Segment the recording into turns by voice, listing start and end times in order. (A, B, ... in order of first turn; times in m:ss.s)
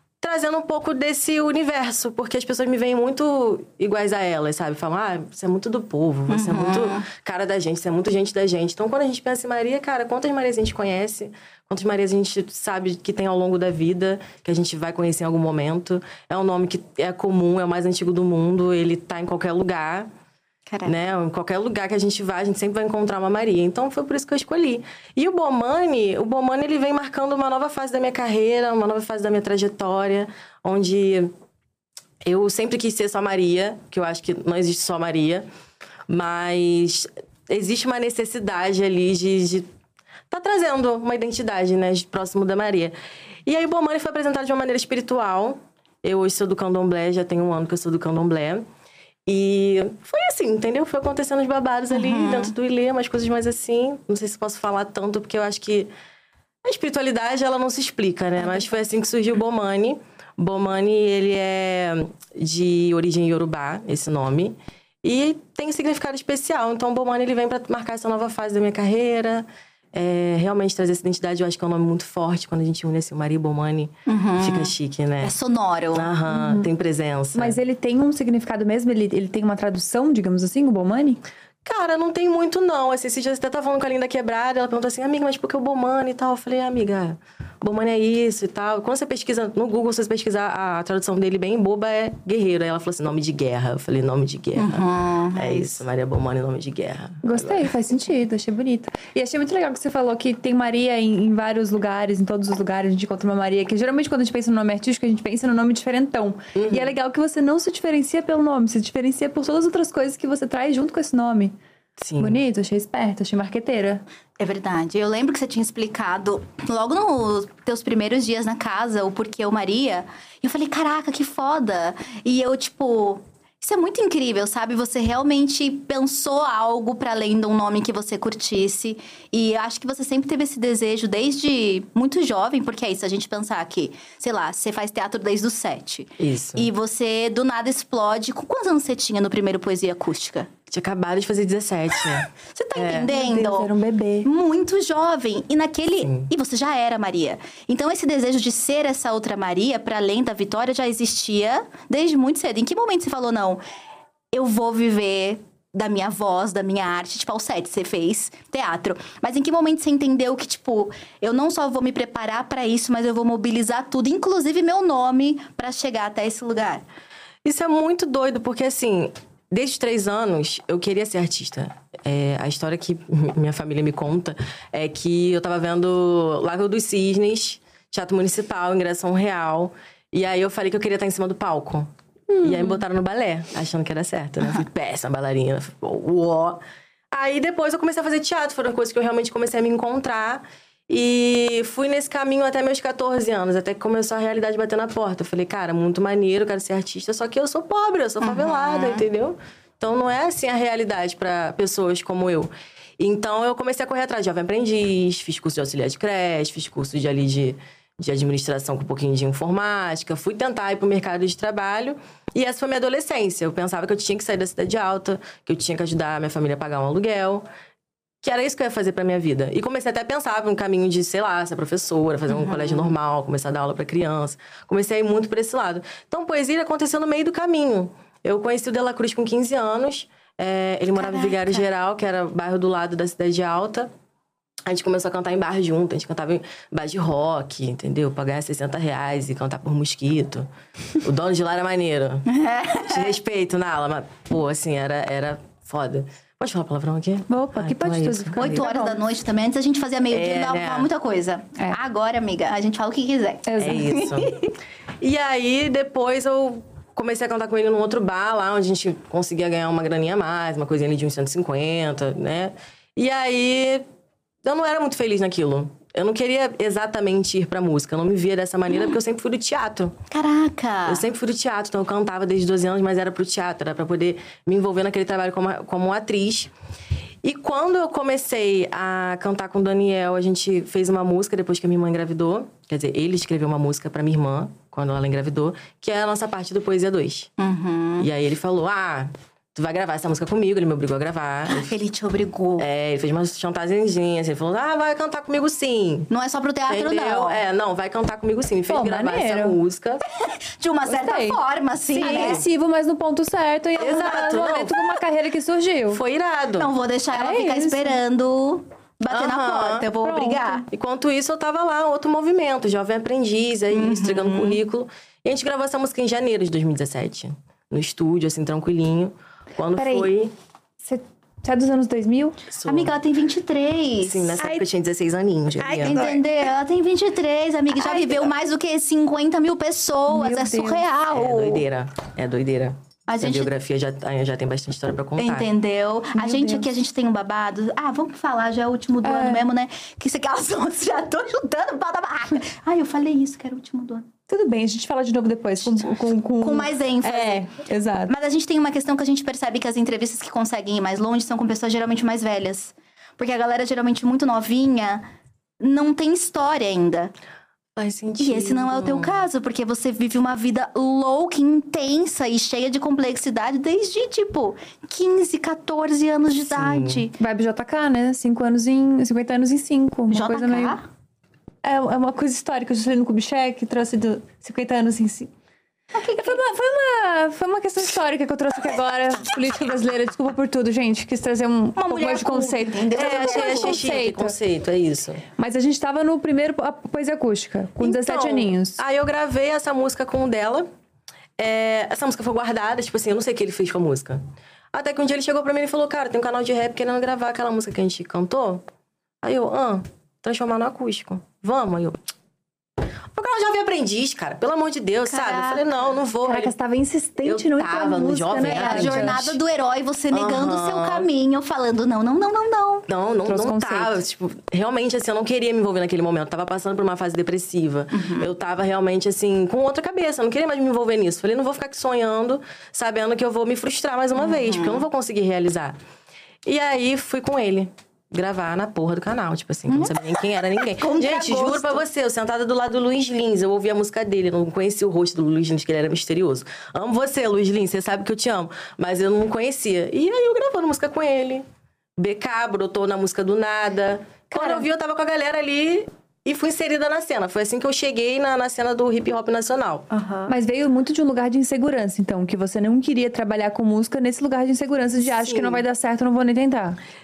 0:00.2-0:20.1 A
0:06.3-0:07.1 B
0:20.7-0:20.9 B
0:20.8-0:31.3 A
0:32.2-0:35.4 A
0:36.1-0:39.7 A
0:40.3-0:42.9 A
0:43.4-0:48.6 A
0:49.2-0:55.9 A
0:51.9-0:52.5 B
0:56.6-1:15.3 A
1:14.1-1:16.1 B
1:15.9-1:17.6 A
1:16.3-1:16.7 C
1:17.3-1:21.2 C
1:21.6-1:37.7 A
1:34.6-1:35.8 B
1:37.2-1:51.5 C
1:46.5-1:46.9 A
1:52.0-1:52.4 A
1:52.2-1:54.0 C
1:54.4-2:20.5 B
2:16.2-2:16.7 A
2:20.7-2:23.1 A
2:22.5-2:23.7 B
2:23.1-2:24.3 C
2:24.2-2:33.6 B
2:26.0-2:26.3 A
2:34.3-2:46.8 B
2:47.4-3:06.6 A
3:02.4-3:02.8 C
3:07.1-3:37.4 A
3:18.2-3:19.0 B
3:38.2-3:53.9 A
3:42.3-3:42.9 B
3:51.0-3:51.7 B
3:54.6-4:00.5 A
4:01.0-4:02.3 A
4:02.3-4:03.0 B
4:02.8-4:08.6 A
4:07.3-4:09.0 C
4:08.4-4:14.5 B
4:10.1-4:10.9 A
4:13.5-4:13.9 C
4:13.6-4:14.4 A
4:15.0-4:23.8 A
4:24.4-4:30.0 A
4:30.1-4:31.0 B
4:30.8-4:36.5 A
4:37.2-4:47.3 A
4:47.4-4:48.1 B
4:48.0-4:51.7 A
4:51.5-4:52.6 B
4:52.6-4:56.1 A
4:56.1-4:57.4 B
4:56.7-5:00.0 A
4:58.7-4:59.6 C
5:00.2-5:02.4 B
5:00.9-5:01.4 C
5:01.9-5:06.0 C
5:03.8-5:04.7 A
5:05.9-5:06.7 A
5:06.6-5:10.6 B
5:07.1-5:08.0 C
5:09.1-5:09.9 A
5:10.0-5:10.6 C
5:10.7-5:20.3 A
5:13.7-5:14.6 B
5:19.8-5:20.1 C
5:20.8-5:22.4 C
5:22.5-5:22.9 A
5:22.6-5:24.4 B
5:24.0-5:26.0 A
5:25.6-5:26.2 C
5:25.8-5:31.6 B
5:30.1-5:30.8 C
5:31.1-5:35.5 A
5:33.1-5:33.5 B
5:35.2-5:44.1 B
5:36.1-5:36.7 C
5:39.0-5:39.5 C
5:44.3-5:48.1 C
5:45.7-5:47.5 B
5:48.1-5:55.0 B
5:55.6-5:57.1 B
5:57.8-5:59.2 A
5:58.2-6:07.1 B
6:06.5-6:07.0 A
6:07.2-6:10.8 C
6:10.1-6:10.8 B
6:11.6-6:15.3 C
6:15.9-6:16.4 B
6:16.2-6:24.4 C
6:21.8-6:23.8 B
6:22.9-6:25.2 A
6:25.4-6:28.8 C
6:27.8-6:30.7 A
6:31.4-6:38.6 A
6:39.2-6:42.0 A
6:43.1-6:46.5 A
6:45.1-6:45.7 B
6:46.2-6:49.2 C
6:47.2-6:49.4 A
6:48.4-6:52.9 B
6:50.1-6:51.1 A
6:52.9-7:05.8 A
6:53.3-6:54.0 C
6:57.9-6:58.3 B
7:04.1-7:04.8 B
7:06.4-7:21.4 A
7:09.7-7:10.0 B
7:10.6-7:11.8 B
7:22.0-7:29.8 A
7:24.4-7:24.6 C
7:29.9-7:30.3 B
7:30.3-7:36.8 C
7:35.0-7:35.6 A